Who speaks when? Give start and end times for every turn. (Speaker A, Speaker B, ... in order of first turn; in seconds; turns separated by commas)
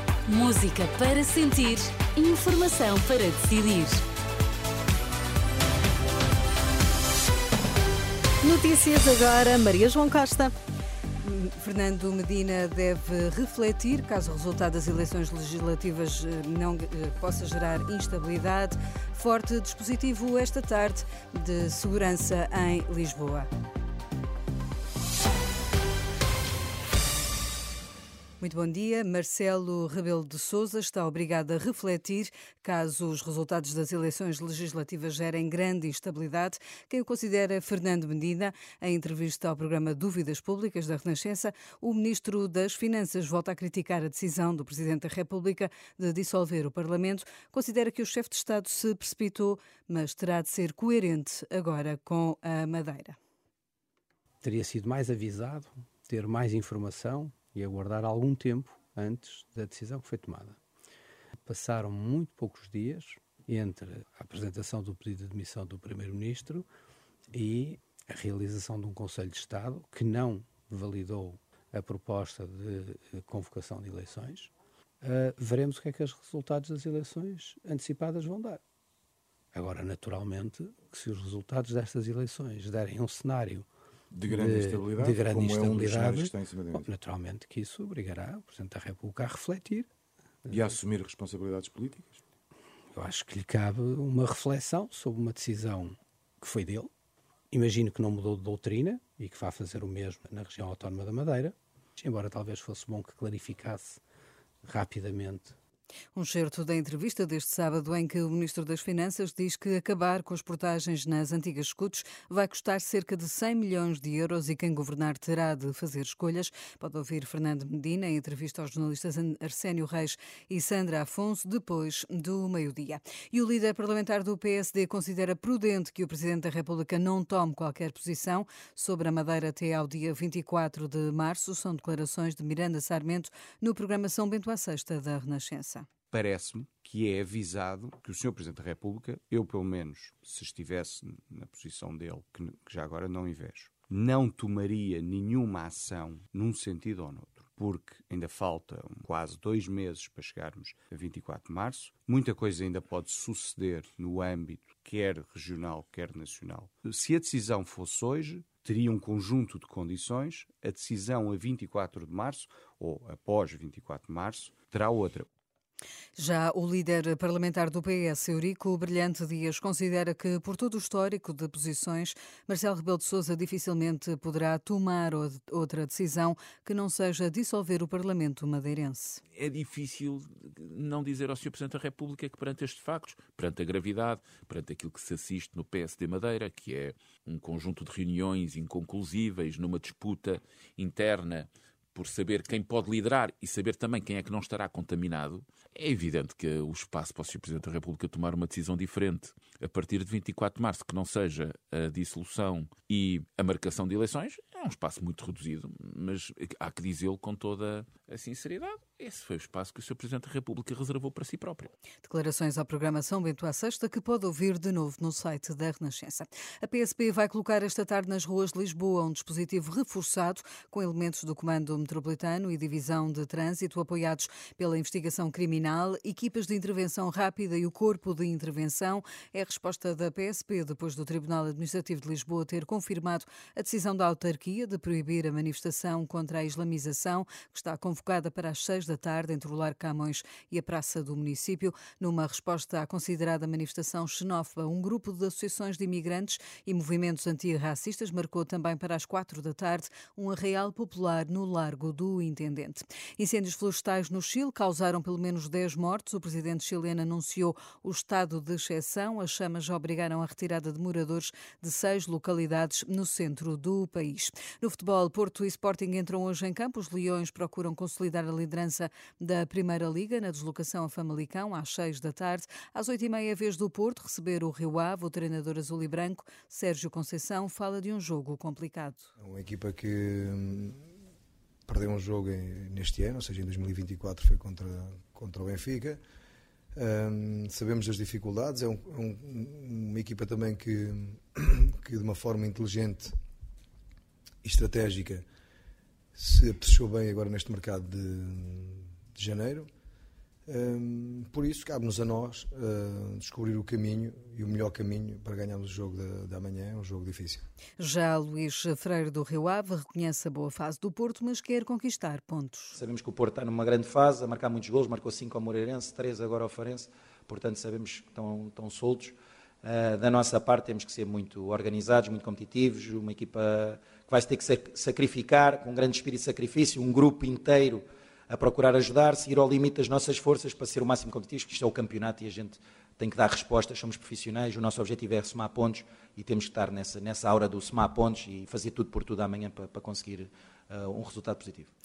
Speaker A: 0.3-4.0, Speaker B: 8.4-10.5, Speaker B: 11.2-23.5, Speaker B: 28.4-53.2, Speaker C: 54.4-60.6, Speaker C: 61.4-66.7, Speaker C: 67.3-78.6, Speaker C: 79.5-83.7, Speaker D: 84.1-86.8, Speaker C: 84.3-89.9, Speaker D: 90.5-92.2, Speaker C: 92.9-96.9, Speaker C: 97.5-104.0, Speaker C: 104.6-105.6, Speaker B: 106.1-135.9, Speaker E: 136.1-165.3, Speaker B: 166.2-179.2, Speaker F: 179.3-211.7, Speaker B: 212.0-279.1, Speaker G: 279.2-280.8, Speaker G: 281.7-286.0, Speaker G: 286.8-293.1, Speaker G: 294.4-295.2, Speaker G: 296.1-299.7, Speaker G: 300.5-307.4, Speaker B: 307.8-312.8, Speaker H: 312.7-341.7